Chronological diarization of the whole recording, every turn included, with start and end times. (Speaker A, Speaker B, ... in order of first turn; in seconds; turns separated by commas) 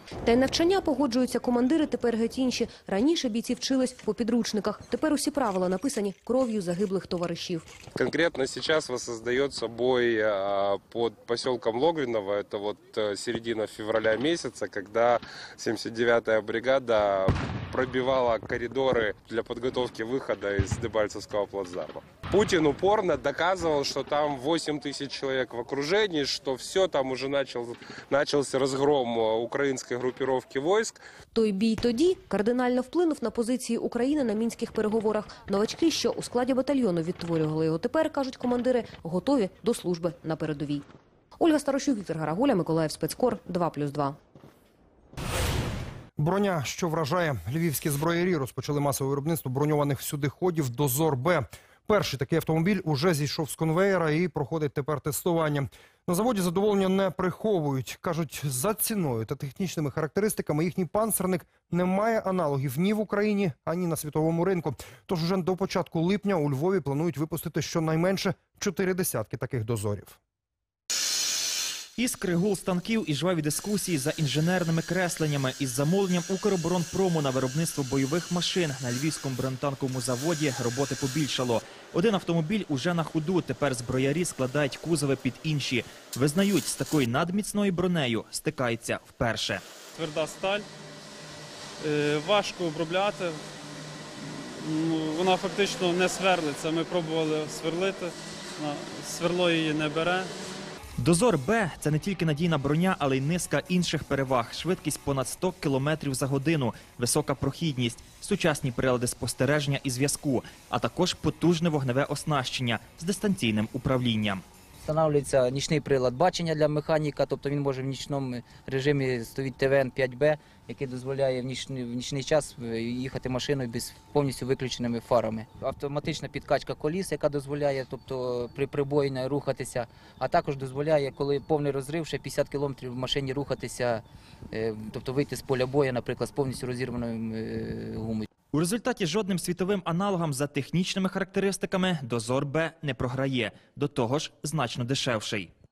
Speaker A: 0.2-7.7, Speaker B: 7.9-31.0, Speaker A: 31.3-40.8, Speaker A: 41.4-44.2, Speaker C: 46.2-70.2, Speaker D: 72.0-89.6, Speaker E: 90.0-90.7, Speaker E: 91.8-93.4, Speaker E: 94.6-100.3, Speaker D: 101.0-114.4, Speaker F: 114.8-138.2, Speaker D: 138.5-145.5